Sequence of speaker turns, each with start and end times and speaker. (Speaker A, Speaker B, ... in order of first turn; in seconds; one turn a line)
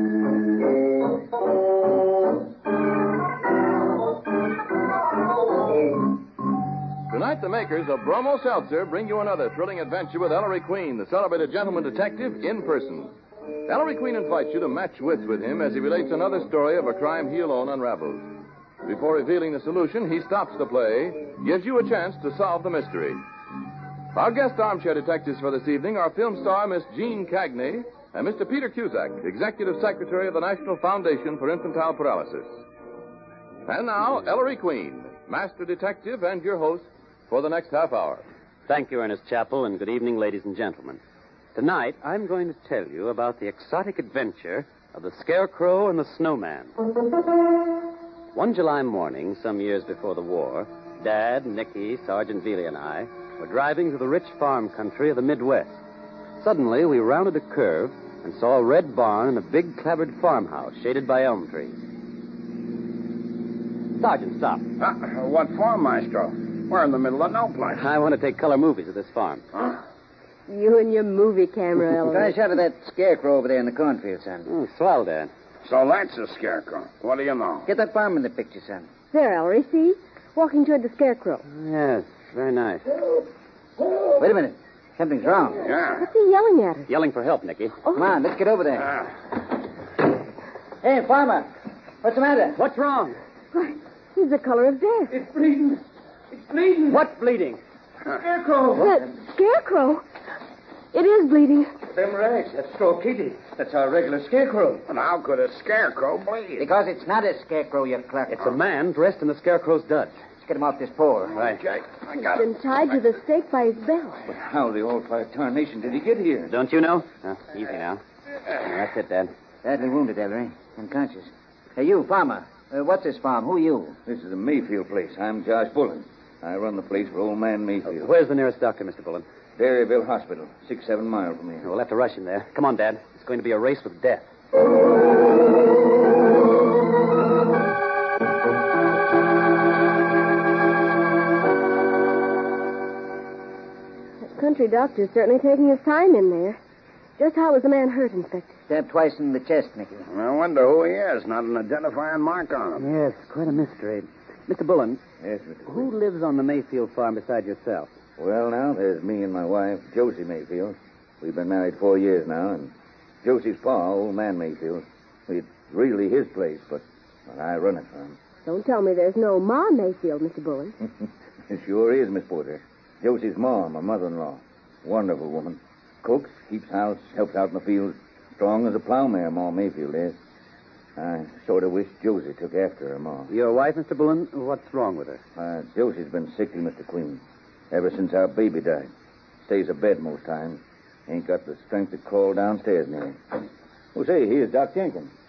Speaker A: 7.1-13.1
Speaker A: 13.7-18.3
Speaker A: 18.8-23.2
Speaker A: 24.1-32.5
Speaker A: 33.6-38.2
Speaker B: 38.7-41.0
Speaker B: 41.5-46.7
Speaker B: 48.3-55.8
Speaker B: 56.4-61.7
Speaker B: 64.0-64.6
Speaker C: 64.8-67.8
Speaker B: 67.7-69.4
Speaker D: 70.5-72.3
Speaker E: 71.9-74.5
Speaker B: 74.5-75.3
Speaker C: 75.6-77.7
Speaker E: 77.6-78.9
Speaker D: 79.1-81.4
Speaker B: 81.5-82.9
Speaker E: 84.2-85.7
Speaker C: 85.6-86.0
Speaker D: 85.9-86.9
Speaker B: 86.9-87.8
Speaker E: 87.9-89.0
Speaker E: 90.8-91.5
Speaker E: 92.0-92.6
Speaker B: 92.5-93.2
Speaker D: 93.5-95.2
Speaker F: 95.2-95.8
Speaker F: 96.4-97.0
Speaker B: 96.9-97.6
Speaker F: 98.2-98.9
Speaker D: 98.8-100.0
Speaker D: 100.9-101.7
Speaker F: 101.9-104.8
Speaker C: 104.9-106.7
Speaker E: 106.6-108.5
Speaker B: 108.3-110.1
Speaker E: 110.4-111.4
Speaker B: 111.3-111.6
Speaker C: 111.4-112.5
Speaker D: 112.2-114.3
Speaker F: 114.3-116.5
Speaker B: 116.5-118.0
Speaker B: 118.5-119.3
Speaker E: 119.6-124.0
Speaker F: 124.0-128.1
Speaker B: 127.9-129.2
Speaker F: 129.6-131.6
Speaker B: 131.6-134.3
Speaker D: 144.3-146.6
Speaker D: 147.2-148.5
Speaker E: 148.7-150.0
Speaker C: 150.1-152.8
Speaker B: 152.8-155.0
Speaker F: 155.2-155.9
Speaker B: 155.7-157.9
Speaker F: 158.2-162.7
Speaker F: 163.2-168.2
Speaker D: 168.4-170.8
Speaker F: 171.5-180.2
Speaker F: 181.0-183.3
Speaker B: 183.3-185.2
Speaker F: 185.4-188.9
Speaker F: 189.4-193.2
Speaker F: 193.9-195.1